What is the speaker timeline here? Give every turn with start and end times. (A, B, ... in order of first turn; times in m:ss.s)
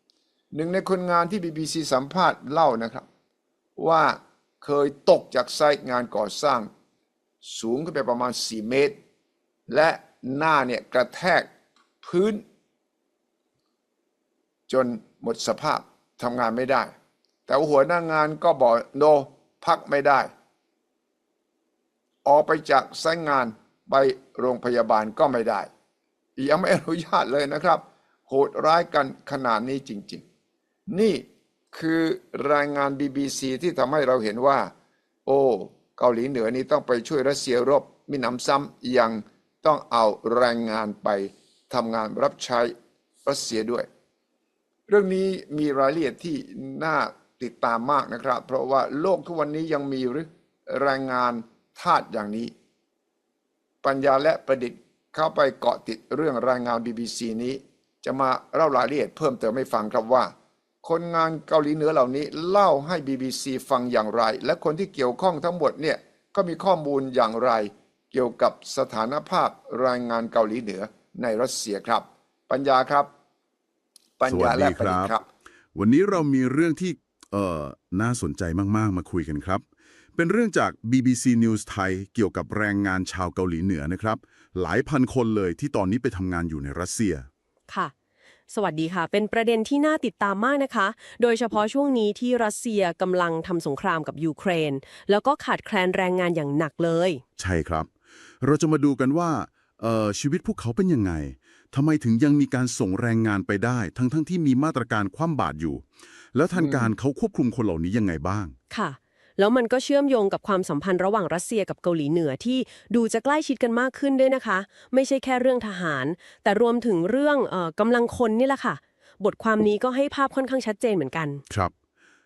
0:00.5-0:03.0 A
0:03.8-0:06.7 A
0:07.4-0:09.0 A
0:09.7-0:11.5 A
0:12.0-0:12.4 A
0:14.7-0:16.9 A
0:17.5-0:20.3 A
0:22.2-0:25.7 A
0:26.4-0:30.2 A
0:30.9-0:34.7 A
0:35.2-0:42.7 A
0:43.2-0:43.9 A
0:44.9-0:52.5 A
0:53.8-1:13.1 A
1:14.2-1:15.3 A
1:14.3-1:15.1 B
1:15.7-1:19.6 B
1:20.1-1:27.3 B
1:28.5-1:37.2 C
1:37.4-1:37.9 B
1:38.4-1:48.5 B
1:46.6-1:46.9 A
1:48.7-2:01.4 C